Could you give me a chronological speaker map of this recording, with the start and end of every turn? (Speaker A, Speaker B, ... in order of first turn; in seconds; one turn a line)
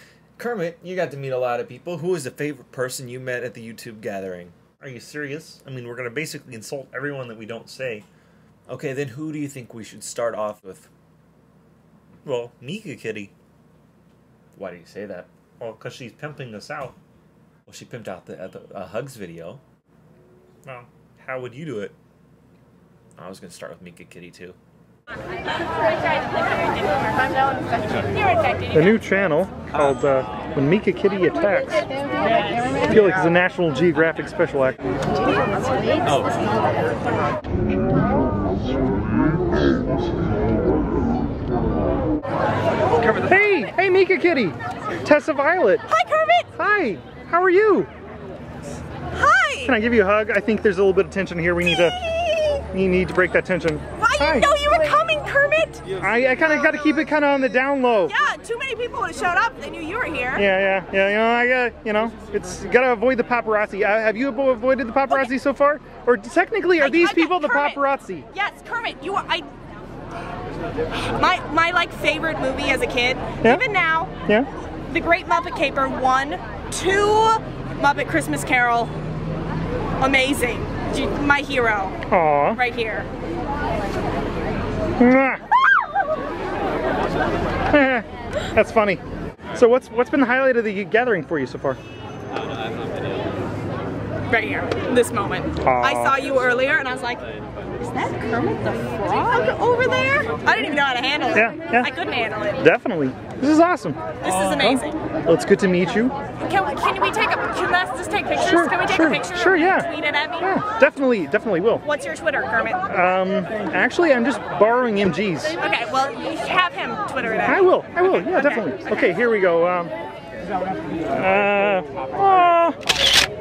Speaker A: 0.4-8.1
Speaker A: 8.7-10.9
Speaker A: 12.2-13.3
Speaker A: 14.5-17.0
Speaker A: 17.7-19.6
Speaker A: 20.6-21.9
Speaker A: 23.2-24.6
Speaker B: 26.6-28.9
Speaker C: 28.7-31.9
Speaker C: 32.8-34.8
Speaker C: 43.2-45.8
Speaker B: 45.9-46.5
Speaker C: 46.6-47.9
Speaker B: 49.1-49.8
Speaker C: 49.7-52.0
Speaker B: 51.6-52.6
Speaker C: 52.7-54.5
Speaker B: 54.0-55.9
Speaker C: 56.0-58.1
Speaker B: 56.6-57.0
Speaker B: 58.1-60.5
Speaker C: 60.4-68.3
Speaker B: 66.8-67.8
Speaker B: 68.3-69.5
Speaker B: 70.9-74.1
Speaker B: 74.9-78.9
Speaker B: 80.0-82.0
Speaker C: 82.1-82.6
Speaker B: 82.5-83.1
Speaker C: 85.0-85.4
Speaker C: 87.7-89.0
Speaker C: 89.5-91.8
Speaker B: 94.3-97.2
Speaker C: 95.6-96.2
Speaker B: 97.8-102.6
Speaker C: 101.3-101.9
Speaker C: 102.6-106.1
Speaker B: 104.2-105.0
Speaker B: 106.4-110.5
Speaker C: 108.4-109.9
Speaker C: 110.4-111.8
Speaker B: 111.8-112.9
Speaker C: 112.9-115.5
Speaker B: 115.6-119.2
Speaker C: 117.5-119.9
Speaker C: 121.1-122.8